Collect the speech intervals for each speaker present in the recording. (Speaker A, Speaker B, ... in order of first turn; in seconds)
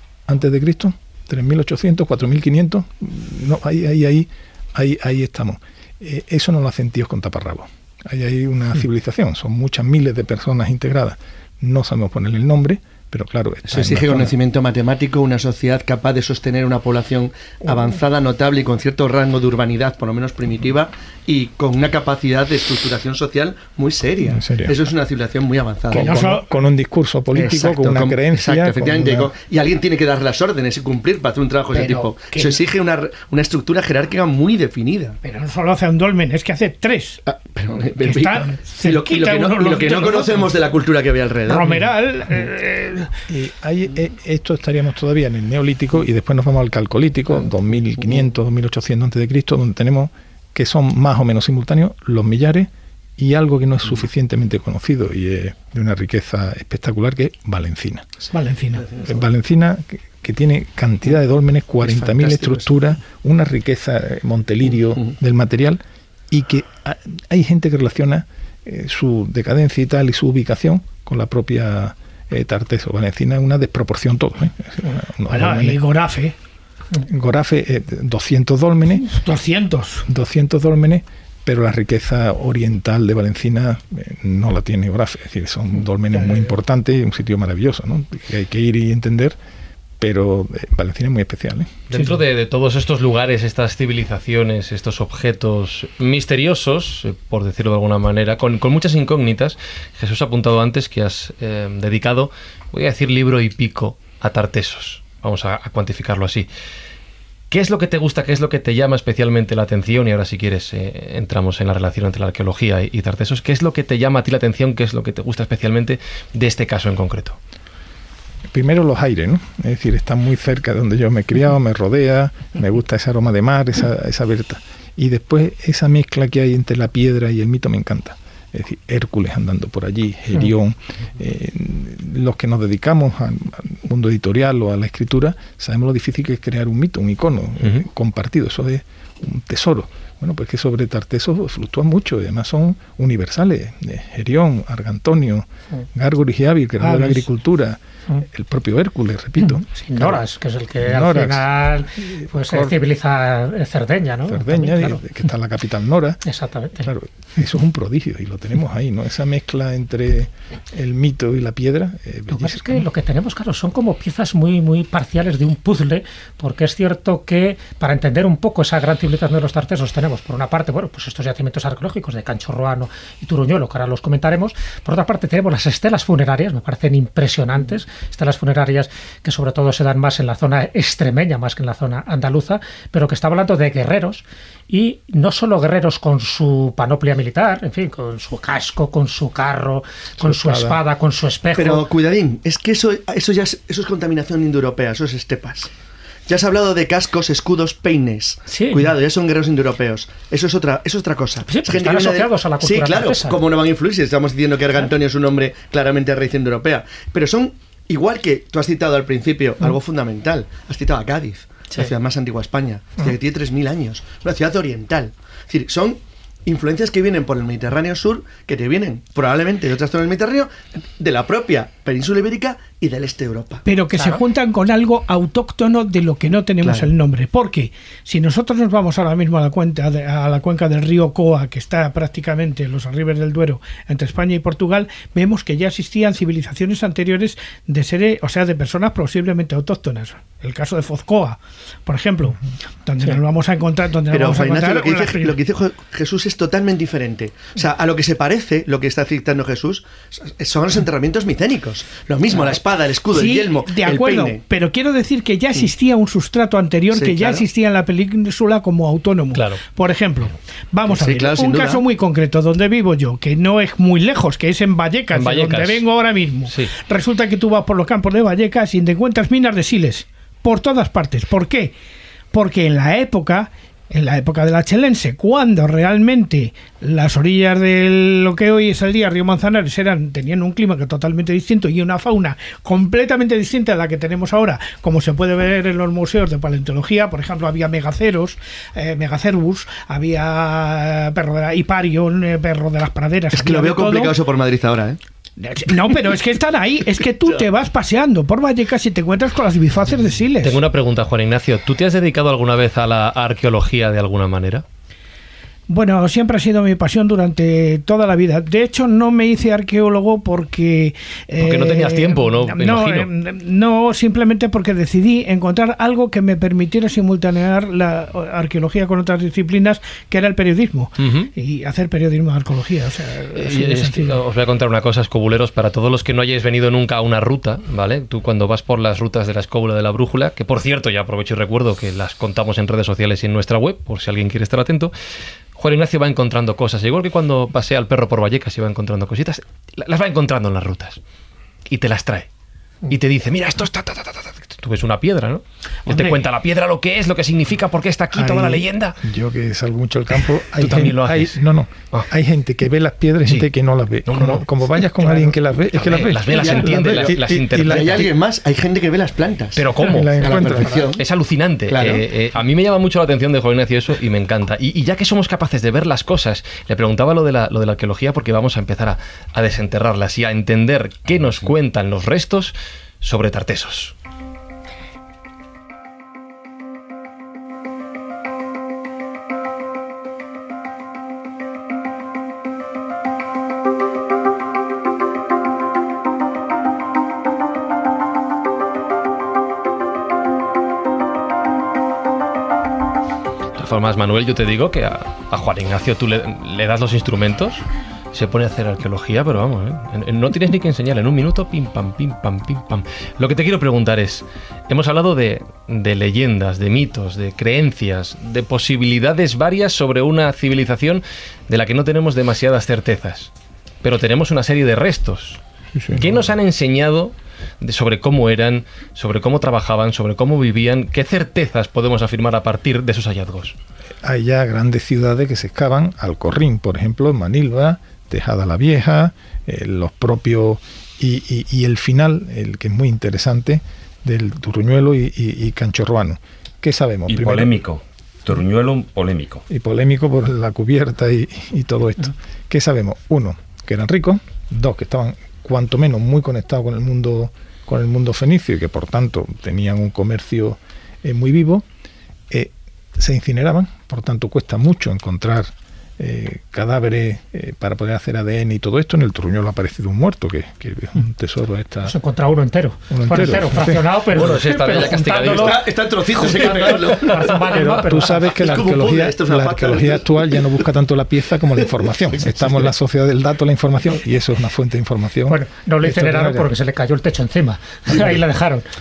Speaker A: 0.3-14.3, 24.2-24.7, 25.9-29.3, 43.3-58.1, 59.0-75.8, 77.0-79.1, 80.1-89.4, 90.0-91.9, 118.5-150.2, 150.8-152.8, 154.3-156.2, 156.8-162.8, 190.2-190.8, 348.1-358.1, 359.9-360.9, 415.7-416.3, 424.0-437.5, 439.5-451.7, 452.3-461.9, 462.9-463.9, 467.4-476.5, 477.9-478.1
Speaker B: 13.7-26.2, 27.3-35.2, 37.2-41.8, 61.8-62.7, 191.5-195.7, 196.3-223.6, 226.6-226.9, 244.1-254.4, 256.9-257.4, 260.9-261.8, 293.3-295.0, 356.3-361.0, 361.7-362.0, 464.6-467.4, 468.2-470.4
Speaker C: 25.9-26.4, 31.7-32.6, 35.2-37.2, 38.0-40.5, 41.5-43.1, 58.3-58.9, 75.3-76.3, 79.0-80.0, 146.8-147.2, 223.6-245.4, 253.1-271.7, 272.3-294.1, 295.4-300.6, 305.7-324.2, 345.9-346.2
Speaker D: 91.9-106.5, 107.5-117.4, 259.3-259.6, 265.1-265.8, 300.4-304.6, 311.4-313.1, 321.0-321.3, 323.4-334.9, 335.5-341.0, 341.7-342.3, 342.9-349.0, 350.5-351.4, 354.0-358.1, 359.6-373.9, 393.5-413.3, 413.8-415.4, 415.9-423.5, 464.1-465.7, 466.2-466.7
Speaker E: 149.4-155.0, 156.2-156.9, 162.3-191.8, 198.5-198.9, 201.4-203.4, 223.9-224.2, 461.8-468.3, 475.3-478.6
Speaker F: 437.1-439.4